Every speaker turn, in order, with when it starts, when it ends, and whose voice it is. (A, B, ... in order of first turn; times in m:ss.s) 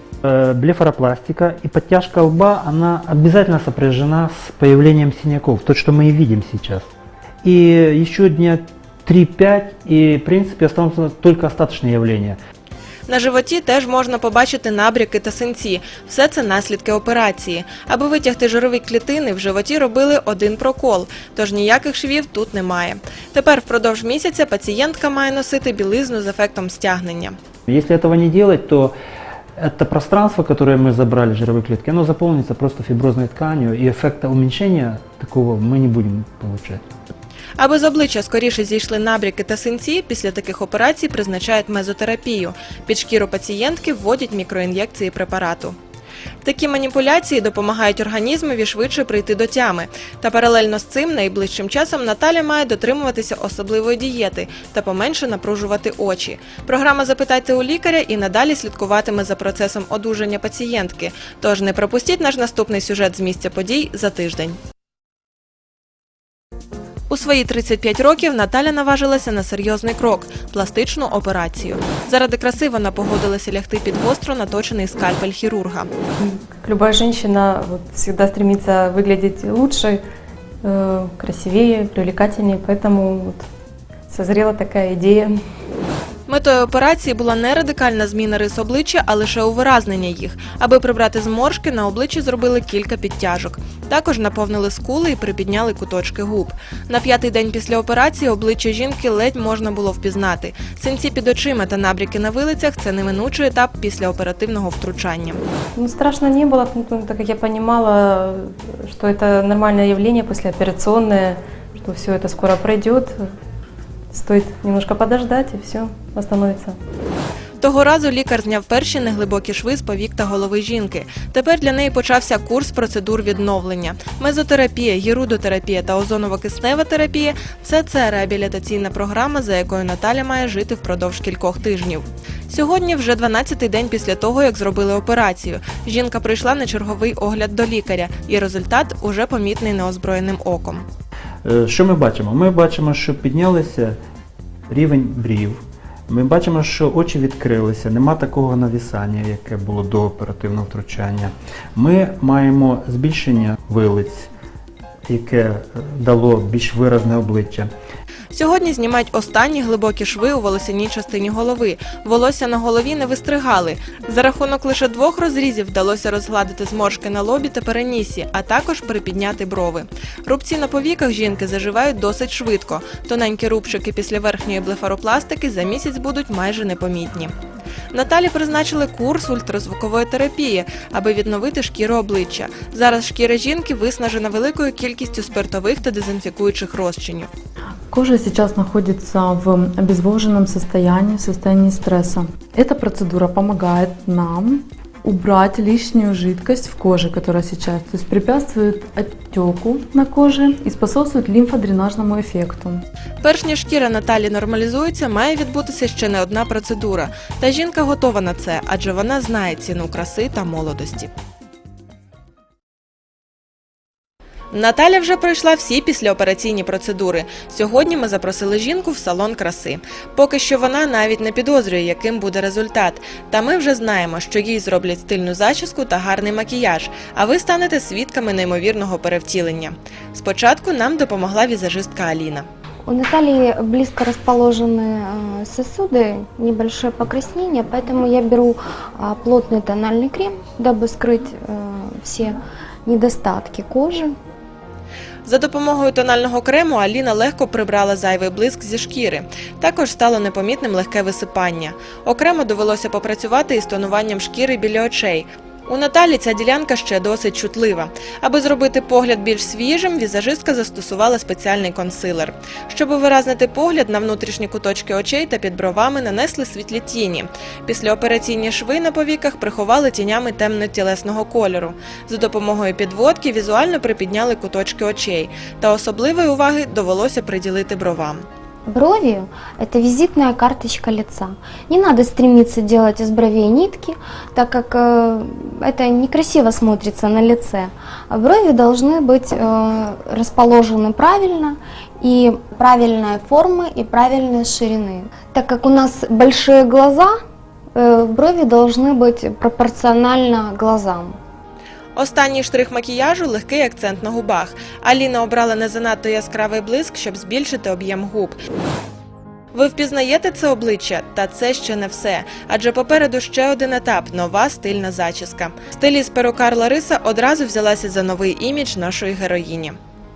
0:00.2-0:06.9 A
0:07.4-0:12.4 A
0:13.1-0:27.4 B
0:27.7-0:28.9 A
0:29.6-0:36.8 A
0:37.6-0:45.8 B
0:46.4-1:04.6 B
1:07.1-1:15.9 B
1:16.2-1:20.0 C
1:20.6-1:23.5 C
1:24.1-1:25.3 C
1:26.3-1:45.4 B
1:45.8-1:53.2 C
1:54.1-1:56.8 C
1:57.6-2:20.8 B
2:21.4-2:24.0 A
2:24.7-2:34.3 A
2:35.1-2:37.7 A
2:38.3-2:57.3 B
2:57.9-3:07.3 B
3:07.9-3:22.8 D
3:23.2-3:31.1 B
3:34.5-3:52.5 B
3:52.8-4:04.1 E
4:05.2-4:38.2 B
4:38.6-4:57.2 E
4:57.7-5:01.2 E
5:02.0-5:08.4 B
5:09.5-5:19.8 B